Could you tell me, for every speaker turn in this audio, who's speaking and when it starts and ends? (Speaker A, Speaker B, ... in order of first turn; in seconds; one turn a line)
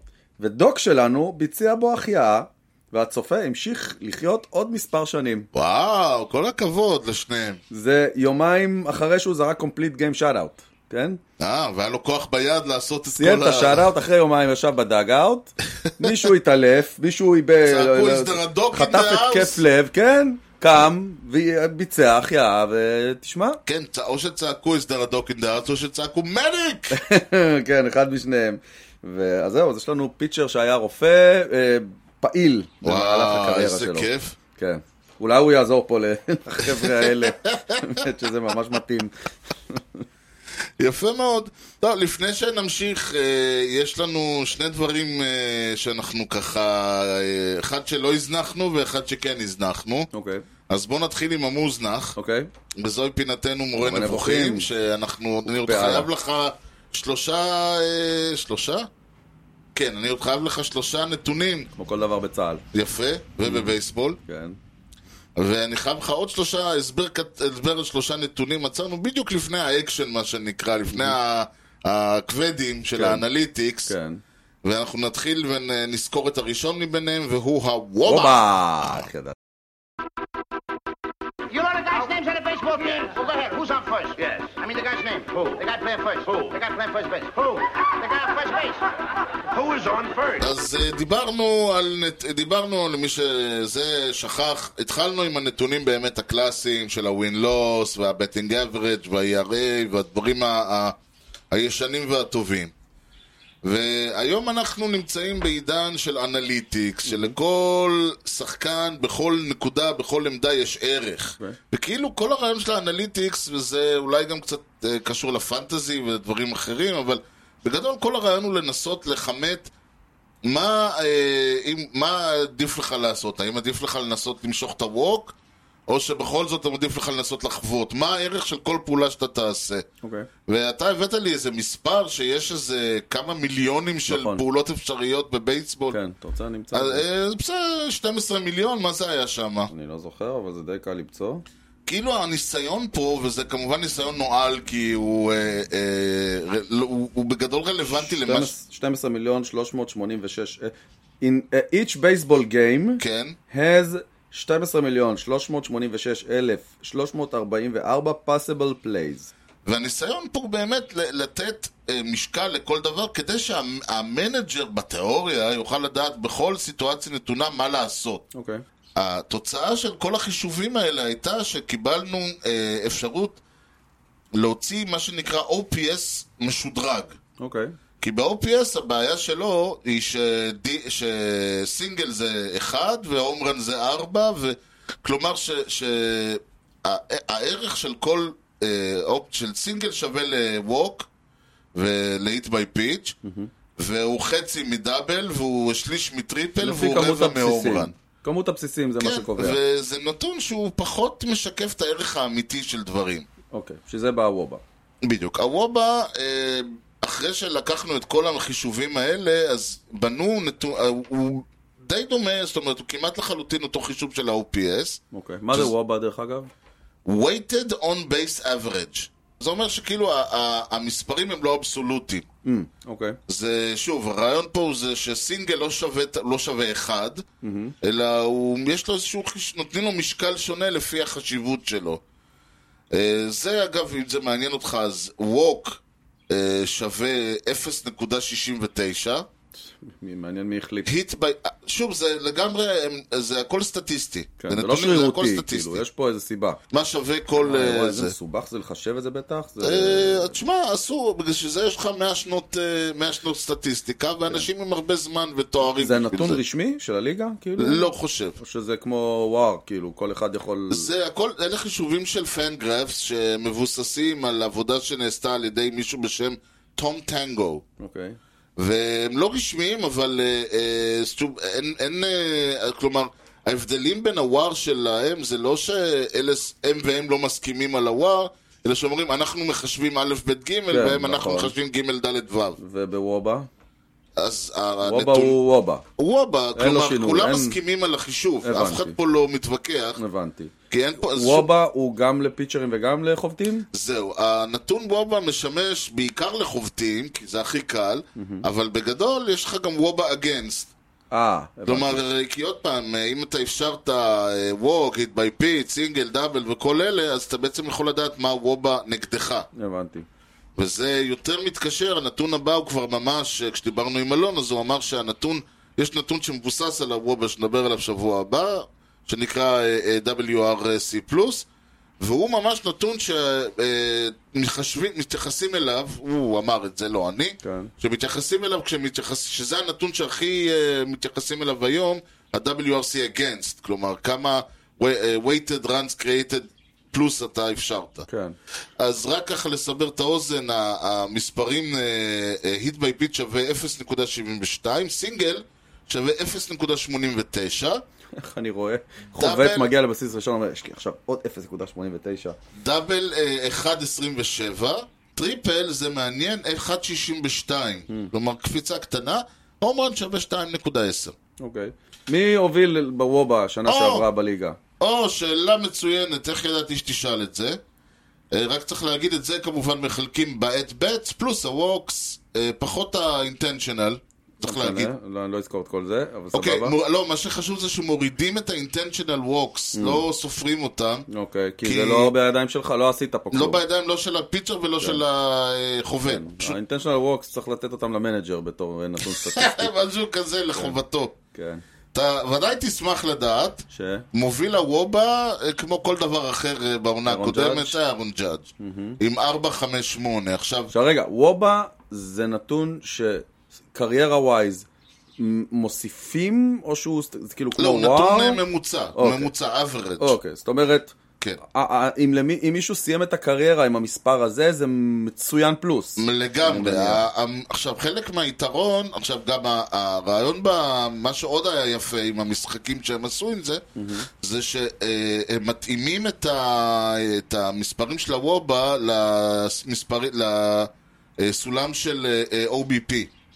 Speaker A: 0.4-5.5
Speaker B: 5.5-7.6
Speaker A: 7.7-11.2
Speaker B: 11.4-13.9
Speaker A: 13.2-23.6
Speaker B: 17.6-19.6
Speaker B: 23.6-27.0
Speaker A: 26.9-39.1
Speaker B: 32.8-34.3
Speaker B: 36.6-38.0
Speaker A: 39.7-40.0
Speaker B: 40.8-50.1
Speaker A: 50.1-50.4
Speaker B: 50.7-52.2
Speaker A: 52.2-52.5
Speaker B: 52.8-58.9
Speaker A: 53.8-54.7
Speaker A: 55.5-56.1
Speaker B: 59.7-61.7
Speaker A: 61.8-62.6
Speaker B: 62.7-64.2
Speaker A: 63.4-64.6
Speaker B: 65.3-73.9
Speaker A: 72.9-73.2
Speaker A: 73.9-74.2
Speaker B: 74.6-79.0
Speaker A: 78.0-79.3
Speaker C: 81.5-88.9
Speaker C: 89.5-90.4
Speaker B: 90.4-101.0
Speaker B: 101.5-102.7
Speaker B: 103.6-119.7
Speaker A: 107.0-107.3
Speaker B: 120.4-125.3
Speaker B: 125.9-129.8
Speaker A: 130.0-130.3
Speaker B: 130.5-136.0
Speaker A: 134.1-134.4
Speaker A: 135.9-137.0
Speaker B: 136.7-139.7
Speaker A: 139.7-141.4
Speaker B: 141.8-148.5
Speaker A: 148.0-159.3
Speaker B: 153.0-153.3
Speaker B: 159.6-168.2
Speaker A: 168.3-168.6
Speaker B: 168.9-173.4
Speaker B: 174.3-177.2
Speaker A: 177.4-177.7
Speaker B: 178.0-191.1
Speaker B: 191.7-193.2
Speaker A: 193.2-193.5
Speaker B: 193.8-197.9
Speaker A: 196.6-199.6
Speaker B: 199.0-203.3
Speaker A: 203.5-204.6
Speaker B: 205.0-215.0
Speaker A: 215.1-216.5
Speaker B: 217.0-222.2
Speaker A: 222.4-223.2
Speaker B: 223.3-227.2
Speaker A: 227.4-227.7
Speaker B: 227.8-232.0
Speaker B: 232.9-239.2
Speaker A: 239.8-240.9
Speaker B: 240.8-245.8
Speaker A: 244.4-246.6
Speaker B: 246.7-248.1
Speaker A: 247.4-250.3
Speaker B: 249.6-256.4
Speaker A: 255.8-260.9
Speaker B: 257.6-258.4
Speaker B: 260.7-267.6
Speaker A: 267.8-268.2
Speaker B: 268.6-282.6
Speaker A: 280.7-281.5
Speaker A: 282.6-283.5
Speaker B: 284.1-285.4
Speaker A: 284.8-285.8
Speaker B: 286.0-290.0
Speaker A: 286.6-287.6
Speaker A: 288.4-288.9
Speaker A: 290.0-293.7
Speaker B: 290.7-291.5
Speaker B: 293.7-300.7
Speaker A: 298.1-298.4
Speaker A: 301.1-302.0
Speaker B: 301.7-309.5
Speaker A: 309.5-310.1
Speaker B: 310.6-321.4
Speaker B: 322.0-338.1
Speaker A: 327.4-327.7
Speaker A: 338.1-338.4
Speaker B: 338.8-347.8
Speaker A: 348.1-352.4
Speaker B: 349.1-349.7
Speaker B: 352.6-361.1
Speaker A: 361.4-364.6
Speaker B: 363.6-364.1
Speaker B: 364.8-367.6
Speaker B: 368.3-374.9
Speaker A: 374.4-376.7
Speaker B: 376.3-381.1
Speaker A: 379.7-380.0
Speaker A: 381.1-383.6
Speaker B: 381.6-382.1
Speaker B: 383.3-386.6
Speaker A: 386.1-389.7
Speaker B: 389.0-391.1
Speaker A: 391.3-391.6
Speaker B: 391.9-400.7
Speaker A: 393.7-394.1
Speaker A: 397.1-397.8
Speaker A: 398.6-399.0
Speaker A: 400.7-404.6
Speaker A: 405.2-408.4
Speaker B: 407.6-410.2
Speaker A: 408.9-409.3
Speaker A: 410.0-417.0
Speaker B: 416.0-433.1
Speaker A: 423.8-424.1